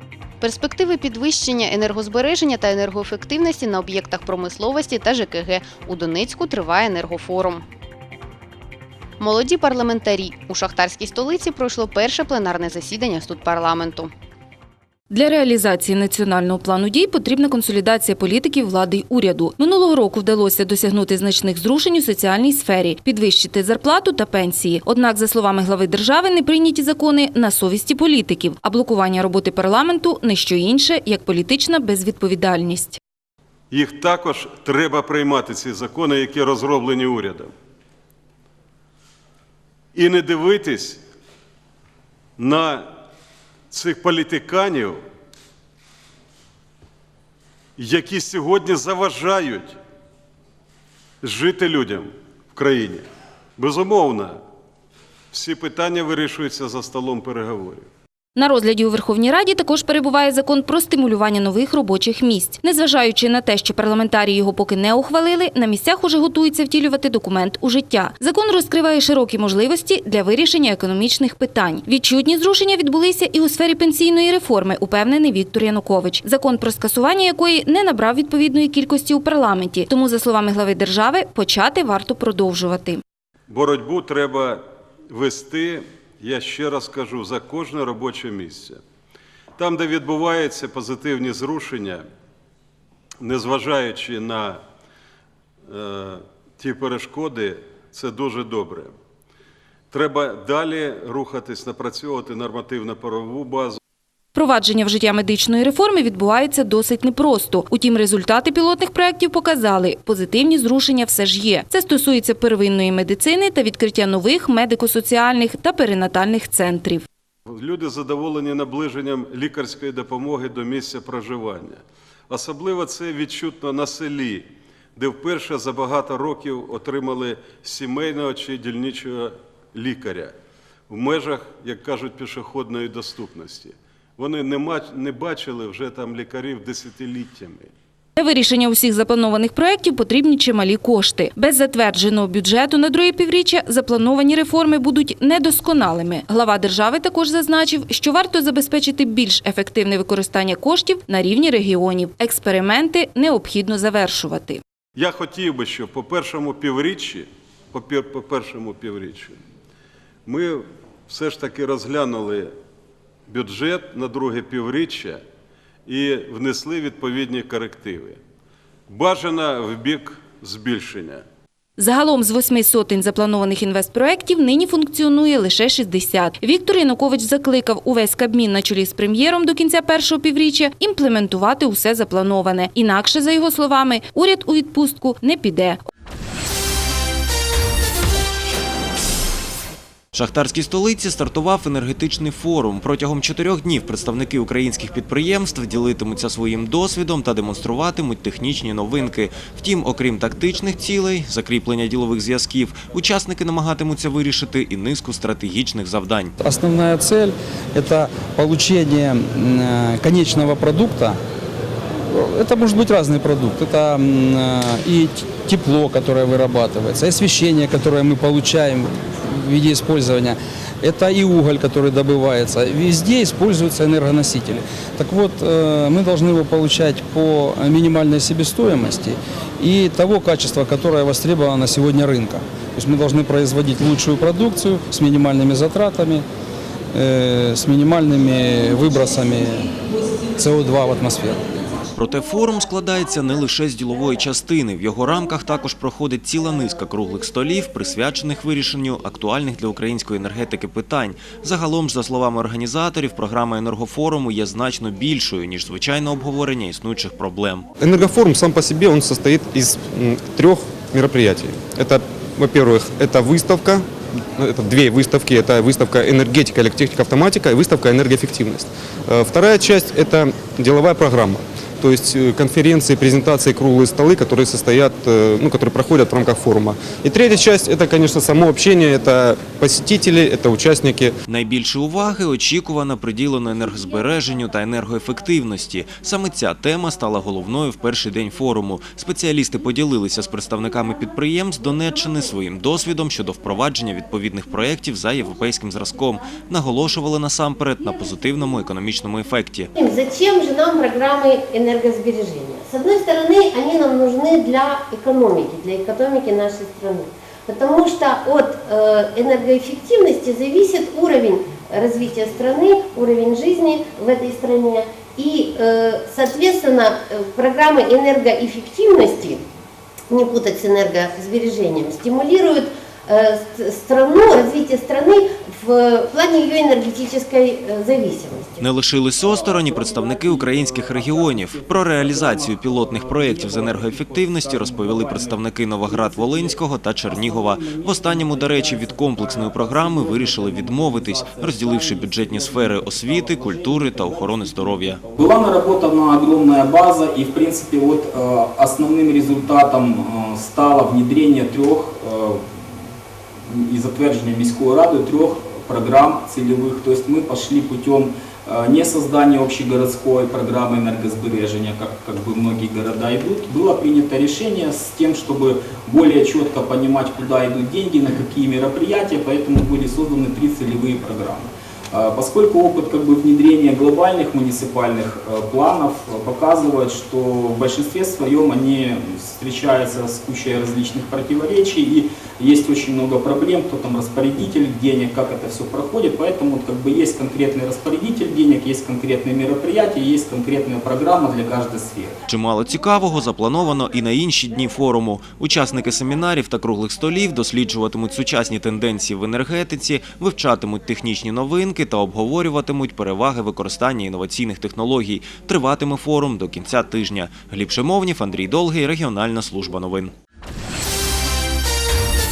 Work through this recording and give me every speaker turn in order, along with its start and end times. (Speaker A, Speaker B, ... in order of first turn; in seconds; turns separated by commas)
Speaker A: 0.4-7.6, Speaker A: 9.2-14.1, Speaker B: 15.1-33.0, Speaker C: 33.7-37.5, Speaker C: 39.9-41.0, Speaker C: 42.4-42.8, Speaker C: 43.7-45.0, Speaker C: 47.8-49.7, Speaker C: 51.2-53.0, Speaker C: 53.6-54.4, Speaker C: 55.3-57.9, Speaker B: 58.4-83.0, Speaker C: 83.5-88.8, Speaker C: 89.6-92.0, Speaker C: 93.2-94.6, Speaker C: 95.7-98.9, Speaker C: 99.9-103.8, Speaker B: 104.3-117.0, Speaker C: 117.5-121.8, Speaker C: 122.3-130.3, Speaker C: 130.9-137.7, Speaker B: 138.2-154.6, Speaker C: 154.9-159.3, Speaker C: 160.2-162.5, Speaker C: 163.3-165.2, Speaker C: 165.9-168.2, Speaker C: 168.9-171.2, Speaker B: 171.8-185.8, Speaker D: 190.1-206.3, Speaker E: 206.4-211.2, Speaker E: 212.1-236.2, Speaker E: 236.9-239.6, Speaker E: 240.4-241.4, Speaker D: 241.9-257.7, Speaker F: 257.8-281.1, Speaker D: 281.3-299.7, Speaker G: 299.8-319.4, Speaker G: 320.1-328.6, Speaker D: 328.6-345.0, Speaker H: 335.0-335.3, Speaker H: 345.1-352.4, Speaker H: 353.5-392.1, Speaker D: 392.3-410.1